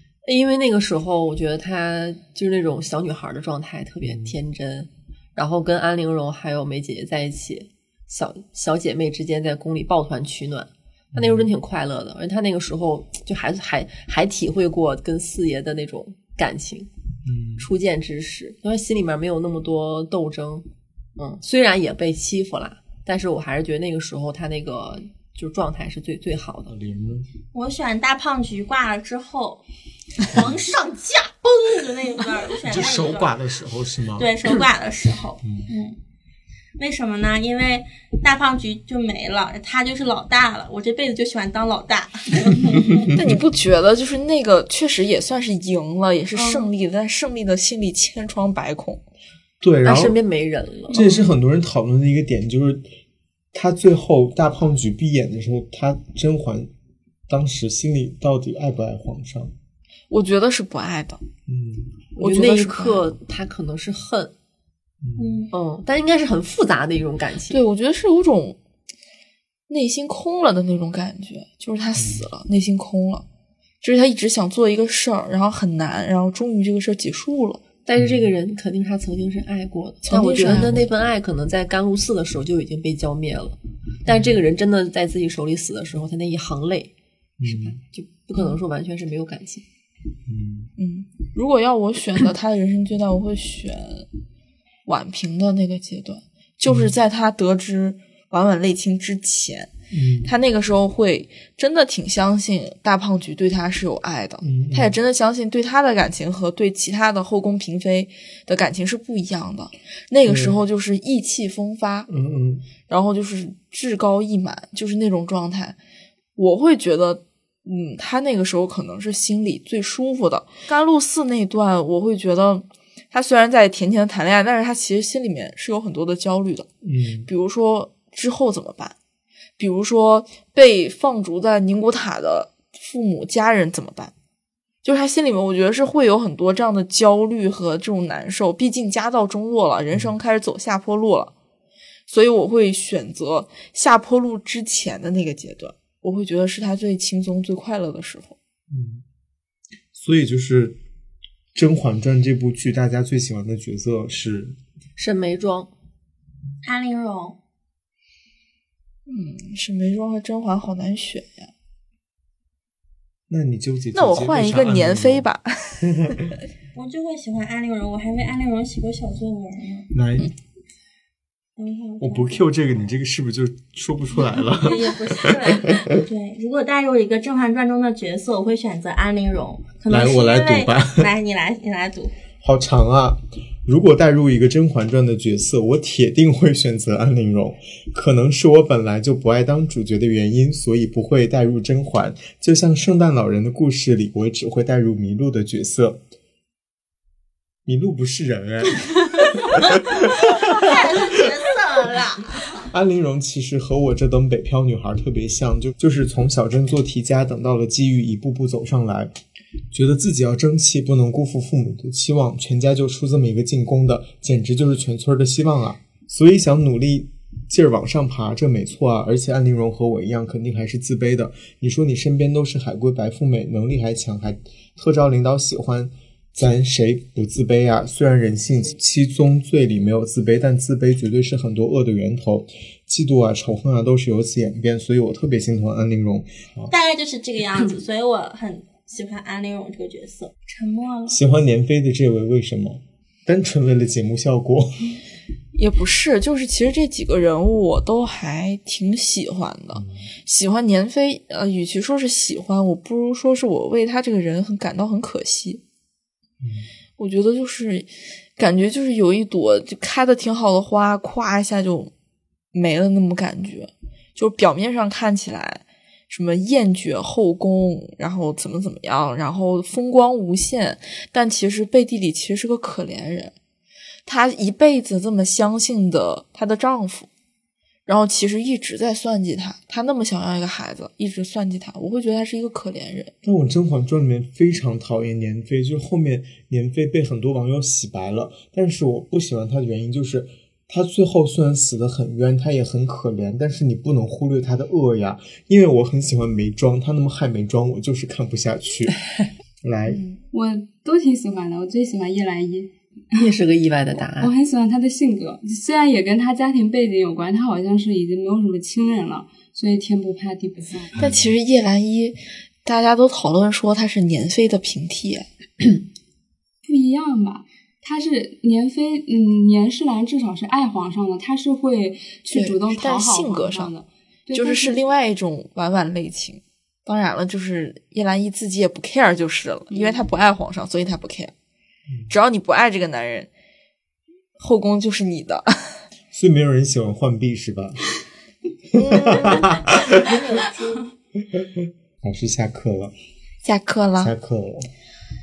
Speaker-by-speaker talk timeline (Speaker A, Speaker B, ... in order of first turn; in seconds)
Speaker A: 0.2-16.9, 17.6-20.7, 21.2-26.7, 49.9-51.0, 62.2-64.3, 65.5-67.6, 77.8-86.9, 87.4-89.6, 155.0-155.7, 303.1-304.3
Speaker B: 4.1-4.3, 11.1-11.5, 17.2-17.7, 26.7-27.3, 32.6-34.6, 35.4-35.7, 49.6-50.2, 50.9-52.9, 53.5-56.7, 57.3-59.5, 61.5-62.0, 65.0-65.5, 72.0-72.2, 78.0-78.3, 84.1-84.3, 87.4-87.8, 90.3-90.7, 96.7-96.9, 99.9-100.3, 104.4-105.0, 110.3-110.6, 112.1-112.7, 126.8-127.3, 148.7-149.0, 149.9-150.8, 151.5-154.6, 163.3-165.3, 165.8-166.3, 169.9-170.3, 172.0-175.9, 179.9-181.1, 182.4-196.0, 197.7-201.2, 202.6-209.1, 209.7-236.7, 241.1-245.0, 249.8-250.0, 256.4-256.7, 283.2-299.0, 299.6-300.0, 311.0-311.3, 336.1-337.9, 338.8-340.2, 341.3-342.9, 344.0-344.7
Speaker C: 27.5-29.6, 30.2-33.4, 34.2-36.0, 36.8-43.1, 46.4-46.7, 65.2-65.5, 156.6-157.4, 166.8-169.9, 171.6-172.4, 174.6-182.1, 199.9-202.7, 236.7-241.2, 339.6-340.9
Speaker D: 43.1-49.0, 60.1-61.2, 62.2-63.1, 67.5-68.6, 69.7-73.2, 73.8-77.6, 80.0-80.9, 90.8-94.1, 94.9-99.7, 100.2-112.1, 112.9-115.8, 116.4-126.7, 127.3-128.9, 129.6-134.1, 134.8-141.3, 142.1-148.4, 159.1-161.5, 163.9-166.3, 245.6-255.6, 257.0-261.9, 262.5-273.3, 274.1-277.1, 277.9-283.1, 299.9-300.2, 311.0-315.8, 322.3-323.7, 324.3-331.3, 332.1-333.3, 334.4-335.8, 338.7-339.5, 343.4-344.1
Speaker E: 300.3-303.2, 304.2-311.0, 316.6-324.8